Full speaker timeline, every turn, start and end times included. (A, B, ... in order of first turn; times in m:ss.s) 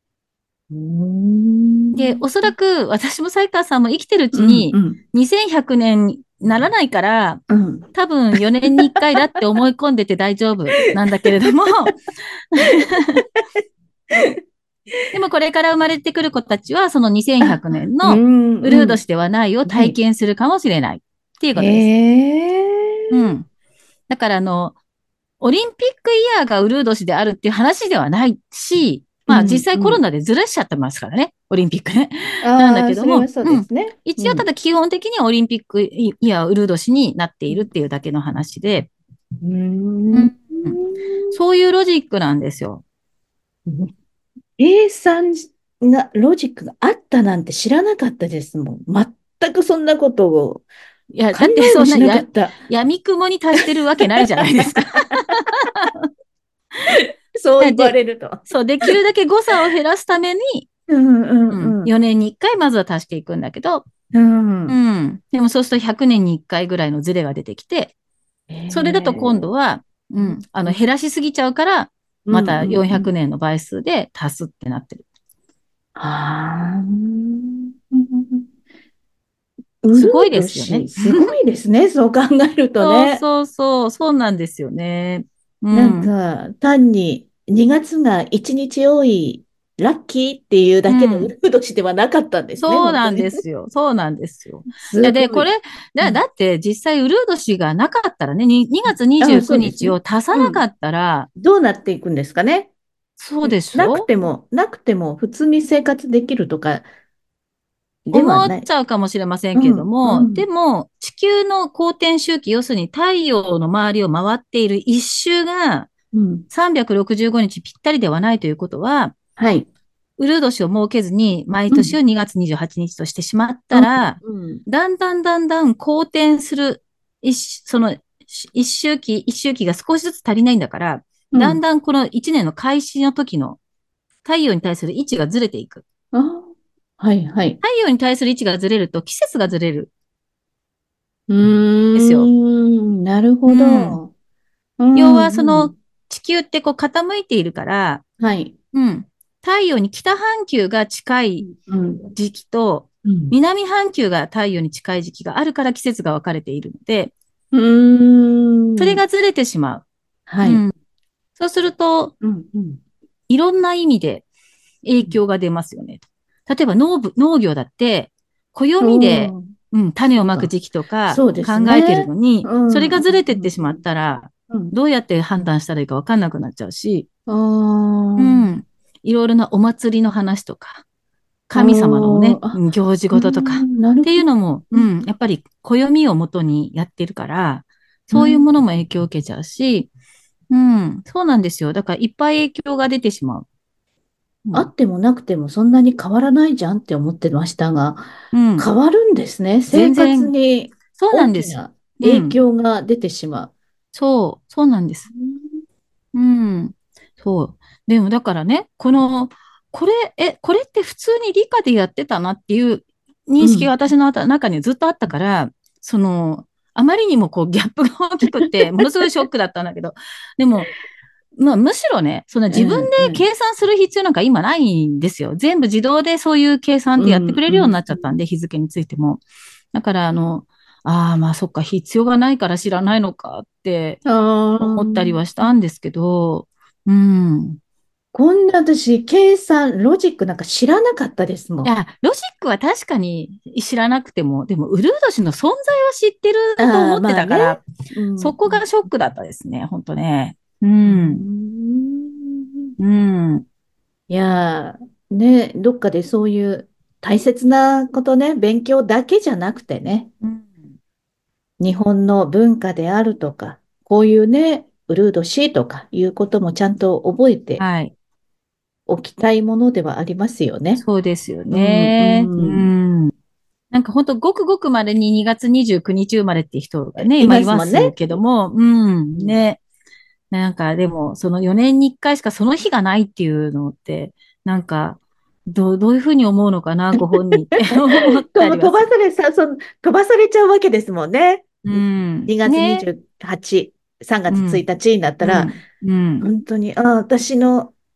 0:00.7-0:02.5 A
0:01.9-0:07.4 B
0:04.3-0:05.0 A
0:07.5-0:07.9 A
0:07.9-0:12.0 B
0:12.5-0:13.2 B
0:14.1-0:14.4 A
0:15.1-0:21.9 B
0:17.4-0:19.0 A
0:19.6-0:19.9 A
0:21.5-0:23.4 A
0:23.1-0:23.5 B
0:24.1-0:24.8 B
0:25.4-0:38.9 B
0:29.3-0:30.0 A
0:32.4-0:34.5 A
0:39.4-0:41.4 A
0:40.1-0:40.8 B
0:41.3-0:42.8 B
0:43.7-0:43.9 A
0:44.6-0:50.6 A
0:51.1-0:55.9 B
0:51.3-0:52.6 A
0:54.0-0:55.2 A
0:56.9-0:58.4 A
0:57.6-1:00.6 B
1:00.9-1:01.9 A
1:01.5-1:03.8 B
1:04.1-1:04.8 A
1:04.7-1:07.9 B
1:08.5-1:09.5 A
1:08.7-1:15.0 B
1:10.2-1:10.8 A
1:12.3-1:13.1 A
1:16.0-1:18.4 A
1:19.8-1:23.2 A
1:19.9-1:21.3 B
1:22.8-1:26.1 B
1:25.7-1:33.4 A
1:30.9-1:31.3 B
1:32.6-1:41.3 B
1:34.8-1:35.5 A
1:38.8-1:40.6 A
1:41.4-1:42.7 A
1:43.2-1:44.1 B
1:43.4-1:46.8 A
1:48.1-1:48.6 A
1:48.1-1:55.9 B
1:49.5-1:50.4 A
1:56.1-1:56.4 A
1:56.5-1:59.1 B
1:59.4-1:59.7 A
2:00.2-2:13.6 B
2:01.7-2:02.0 A
2:03.7-2:04.6 A
2:11.3-2:11.6 A
2:14.2-2:15.8 B
2:16.1-2:17.6 A
2:17.6-2:19.9 B
2:21.3-2:24.1 A
2:21.9-2:22.3 B
2:23.5-2:24.0 B
2:24.8-2:25.7 A
2:24.9-2:28.0 B
2:28.2-2:28.5 A
2:28.7-2:31.5 B
2:31.4-2:32.0 A
2:32.1-2:37.1 B
2:33.0-2:33.3 A
2:37.5-2:39.0 A
2:38.8-2:39.8 B
2:40.3-2:40.6 A
2:40.4-2:40.7 B
2:41.4-2:42.1 B
2:42.2-2:42.8 A
2:43.3-2:44.2 B
2:44.8-2:57.0 B
2:48.8-2:49.5 A
2:51.1-2:53.6 A
2:57.3-2:58.6 A
2:58.2-3:00.8 B
3:01.5-3:09.9 B
3:01.5-3:02.6 A
3:03.1-3:04.9 A
3:08.1-3:08.5 A
3:10.5-3:13.4 B
3:14.5-3:23.5 A
3:18.3-3:18.7 B
3:19.7-3:20.3 B
3:21.0-3:22.4 B
3:23.9-3:25.1 B
3:25.1-3:25.6 A
3:26.1-3:40.7 B
3:33.4-3:33.7 A
3:41.4-3:49.2 B
3:42.5-3:43.2 A
3:47.0-3:47.9 A
3:49.7-3:54.0 B
3:54.0-3:55.2 A
3:54.6-3:57.6 B
3:58.1-4:01.7 A
4:01.6-4:07.6 B
4:06.6-4:08.6 A
4:08.2-4:11.2 B
4:10.8-4:12.7 A
4:12.8-4:13.4 B
4:14.1-4:20.1 A
4:20.2-4:20.6 B
4:21.6-4:27.6 A
4:27.6-4:27.9 B
4:28.9-4:30.8 A
4:30.8-4:33.1 B
4:31.5-4:32.7 A
4:33.7-4:39.6 B
4:37.0-4:38.2 A
4:40.3-4:48.9 B
4:48.3-4:55.5 A
4:51.6-4:52.8 B
4:54.3-4:54.6 B
4:55.2-4:56.2 B
4:56.2-4:57.7 A